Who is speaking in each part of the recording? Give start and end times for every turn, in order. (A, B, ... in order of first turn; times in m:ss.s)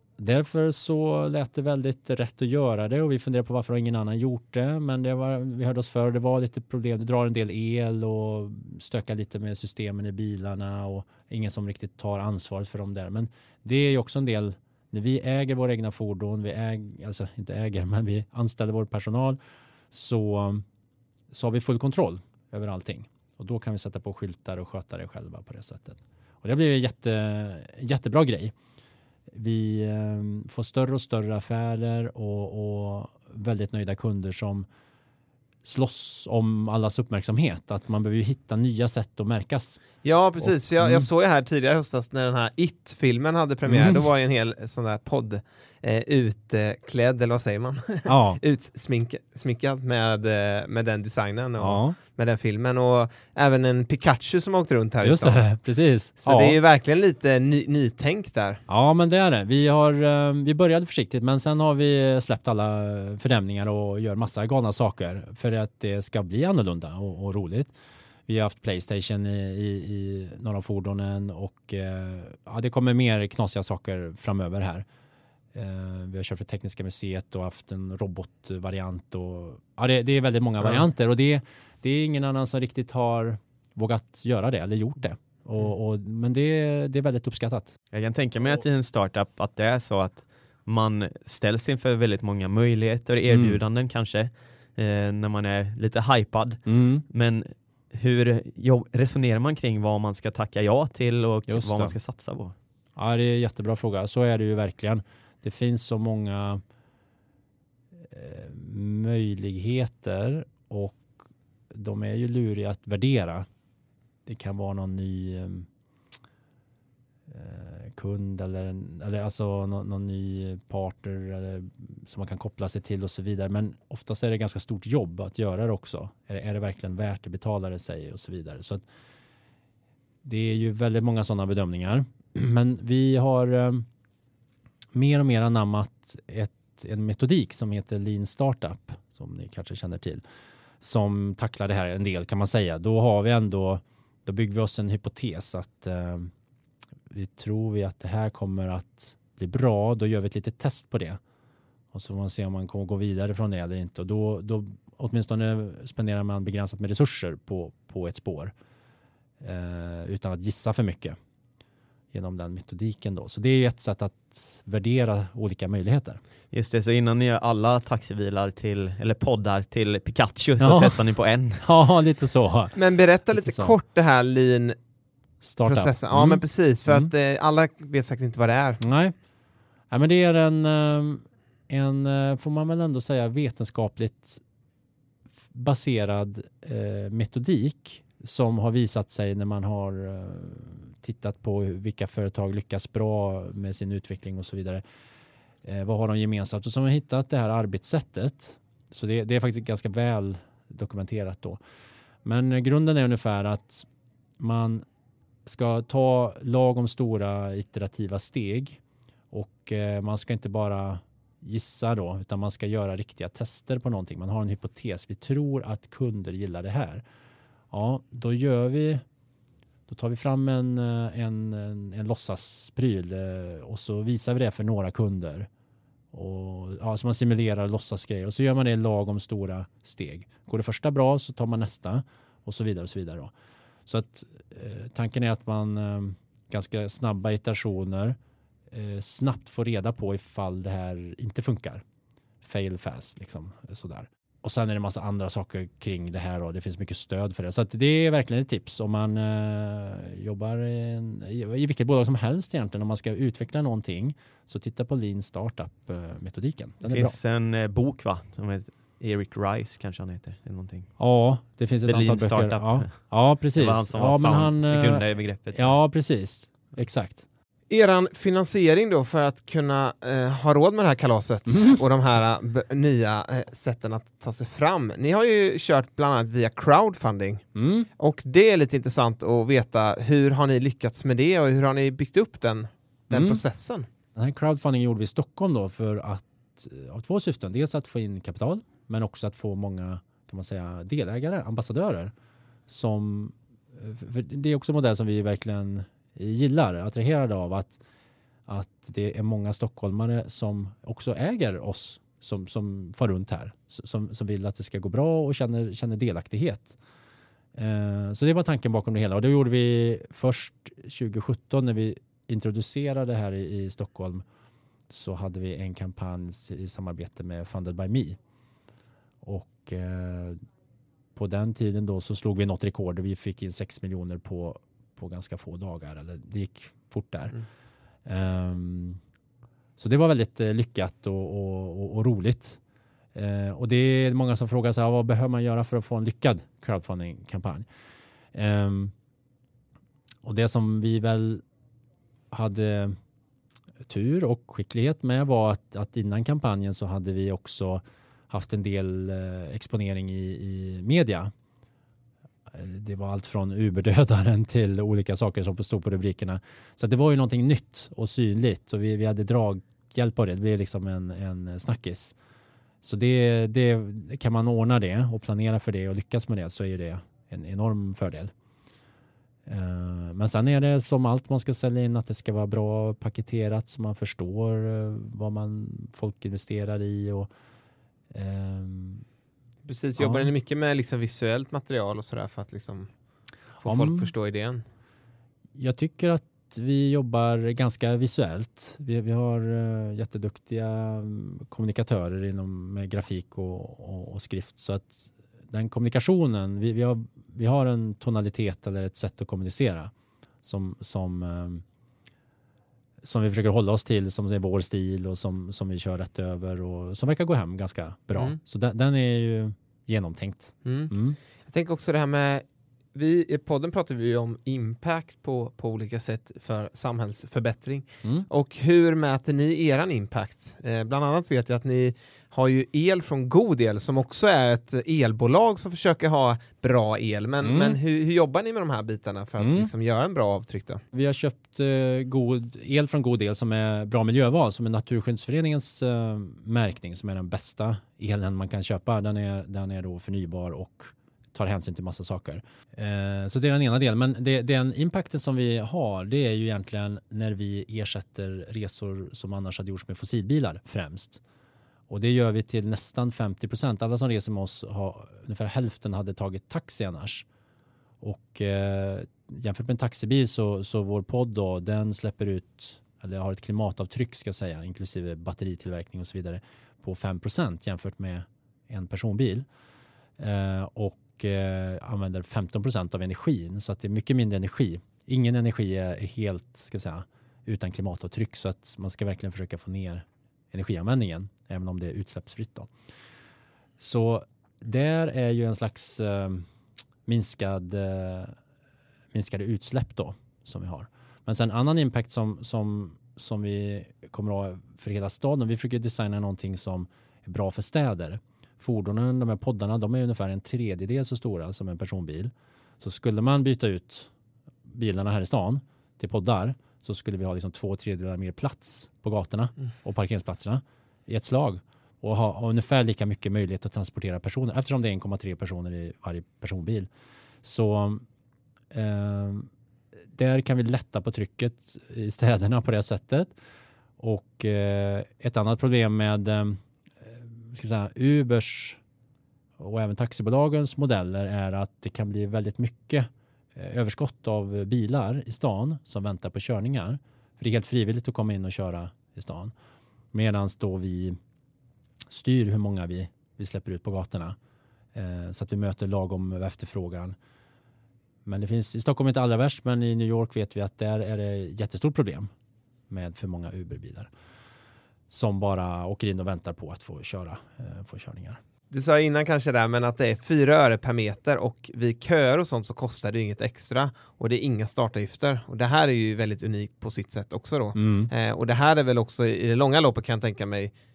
0:00.2-0:19.4 A
0:19.9-0:20.6 A
0:21.3-0:28.5 A
0:29.3-0:34.7 A
0:35.6-0:39.8 A
0:40.0-0:55.4 B
0:40.4-0:41.1 A
0:43.6-0:44.0 A
0:48.1-0:48.4 A
0:51.6-0:52.0 A
0:55.0-0:56.6 A
0:56.2-0:58.6 B
0:58.7-1:07.7 A
1:08.3-1:14.9 A
1:15.5-1:27.8 A
1:27.9-1:42.6 C
1:33.3-1:33.6 A
1:36.6-1:37.0 A
1:41.5-1:42.0 A
1:43.0-1:46.6 A
1:48.1-1:51.1 A
1:51.7-1:53.5 A
1:54.3-1:55.7 A
1:57.3-2:08.8 A
2:10.2-2:13.9 A
2:14.9-2:20.2 A
2:20.8-2:26.3 A
2:27.1-2:31.2 A
2:31.9-2:38.5 A
2:39.4-2:41.2 A
2:42.1-2:46.2 A
2:46.5-2:51.6 C
2:50.6-2:51.1 A
2:51.6-2:52.8 A
2:52.8-2:54.8 B
2:53.3-2:53.7 A
2:55.4-2:57.1 A
2:55.6-2:58.8 B
2:58.8-2:59.1 A
2:59.9-3:04.4 A
3:05.5-3:14.8 A
3:15.6-3:21.6 A
3:22.2-3:23.9 A
3:24.4-3:24.8 A
3:25.5-3:28.8 A
3:29.3-3:37.0 A
3:37.7-3:39.0 A
3:39.9-3:45.5 A
3:46.1-3:53.3 A
3:53.9-3:58.2 A
3:58.7-4:01.8 A
4:02.4-4:17.2 A
4:16.8-4:20.9 C
4:21.0-4:27.2 A
4:21.9-4:23.0 C
4:23.6-4:25.7 C
4:27.7-4:37.5 B
4:31.5-4:31.8 A
4:37.6-4:37.9 A
4:38.0-4:43.9 B
4:43.1-4:43.4 A
4:44.1-4:52.1 A
4:52.7-4:57.8 A
4:58.5-5:06.8 A
5:07.6-5:14.2 A
5:14.9-5:18.2 A
5:19.2-5:20.4 A
5:21.1-5:27.4 A
5:28.1-5:29.0 A
5:29.8-5:32.6 A
5:33.1-5:37.7 A
5:38.3-5:38.9 A
5:40.2-5:41.4 A
5:42.3-5:43.0 A
5:43.9-5:51.3 A
5:52.5-6:02.2 A
6:02.8-6:08.3 A
6:09.5-6:17.3 A
6:18.1-6:19.0 A
6:19.6-6:22.9 B
6:20.0-6:20.3 A
6:23.6-6:24.6 B
6:23.6-6:24.1 A
6:25.6-6:39.9 A
6:40.4-6:41.6 A
6:43.0-6:51.2 A
6:50.6-6:50.9 B
6:51.5-7:10.8 B
7:07.4-7:07.8 A
7:09.4-7:09.7 A
7:10.9-7:31.2 A
7:31.9-7:37.2 A
7:38.0-7:49.5 A
7:50.2-8:02.7 A
8:03.8-8:06.5 A
8:07.1-8:08.4 A
8:09.1-8:24.1 A
8:24.7-8:36.9 A
8:37.4-8:38.0 A
8:38.7-8:39.5 A
8:40.2-8:43.3 A
8:44.0-8:48.8 A
8:49.6-8:59.5 A
9:00.1-9:01.2 A
9:02.1-9:04.4 A
9:04.9-9:07.2 A
9:08.2-9:12.3 A
9:12.9-9:14.1 A
9:15.1-9:18.4 A
9:18.7-9:30.7 B
9:27.8-9:28.1 A